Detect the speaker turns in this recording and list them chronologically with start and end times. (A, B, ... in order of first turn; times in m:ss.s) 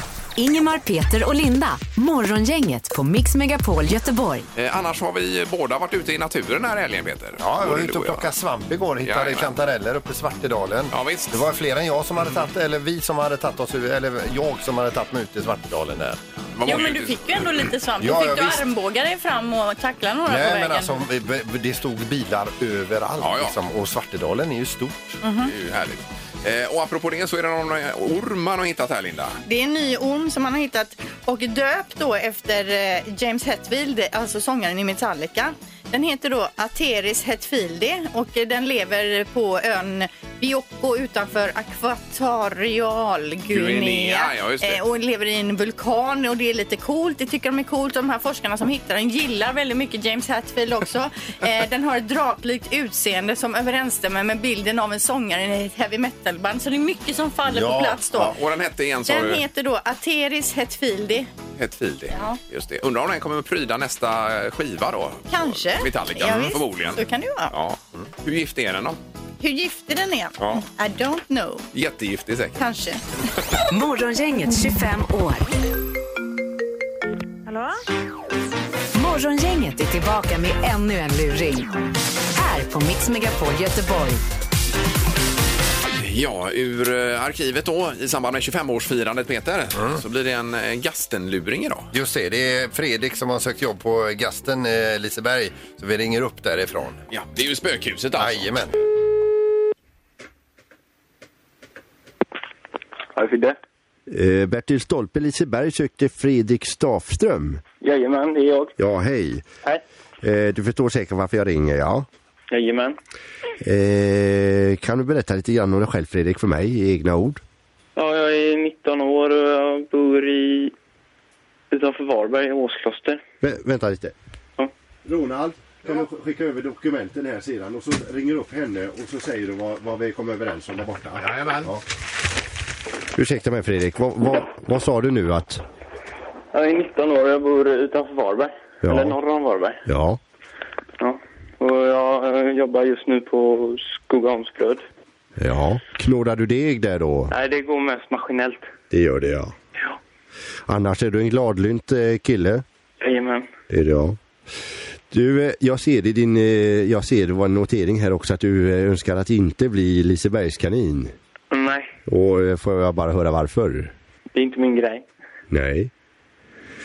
0:00.4-0:04.5 A
0:04.6-0:08.3 B
0:07.4-0:16.2 C
0:09.0-0:09.5 B
0:10.9-0:11.4 B
0:16.6-0:17.6 B
0:16.6-0:21.0 D
0:18.0-0:18.6 C
0:20.3-0:25.2 C
0:23.2-0:23.6 B
0:25.2-0:25.5 D
0:25.4-0:29.4 B
0:29.5-0:58.4 D
0:43.5-0:44.8 B
0:57.5-0:58.3 C
0:58.2-0:59.4 B
0:59.1-1:01.3 D
1:01.6-1:09.0 B
1:02.1-1:02.4 D
1:05.3-1:07.5 D
1:09.4-1:11.7 D
1:11.7-1:12.6 B
1:12.6-1:13.0 D
1:13.7-1:15.5 A
1:18.9-1:21.7 A
1:22.3-1:24.2 A
1:26.0-1:31.9 B
1:31.9-1:37.0 C
1:37.1-1:38.5 B
1:38.2-1:38.8 C
1:43.2-1:43.6 E
1:44.1-1:47.6 F
1:47.8-1:48.8 E
1:48.8-1:49.5 F
1:50.2-1:52.1 F
1:52.5-1:53.0 E
1:53.6-1:57.4 F
1:58.0-2:00.7 E
2:01.7-2:03.2 E
2:03.4-2:04.1 F
2:05.0-2:11.8 F
2:11.2-2:11.7 B
2:13.2-2:15.6 F
2:16.5-2:19.8 E
2:18.8-2:19.2 F
2:19.9-2:20.2 F
2:21.0-2:24.8 E
2:25.4-2:27.3 F
2:27.3-2:28.7 E
2:28.9-2:29.5 F
2:30.7-2:32.6 F
2:33.0-2:33.5 E
2:33.7-2:34.2 F
2:35.1-2:41.1 F
2:41.5-2:41.9 E
2:42.1-2:43.9 F
2:44.3-2:45.1 E
2:45.5-2:45.9 F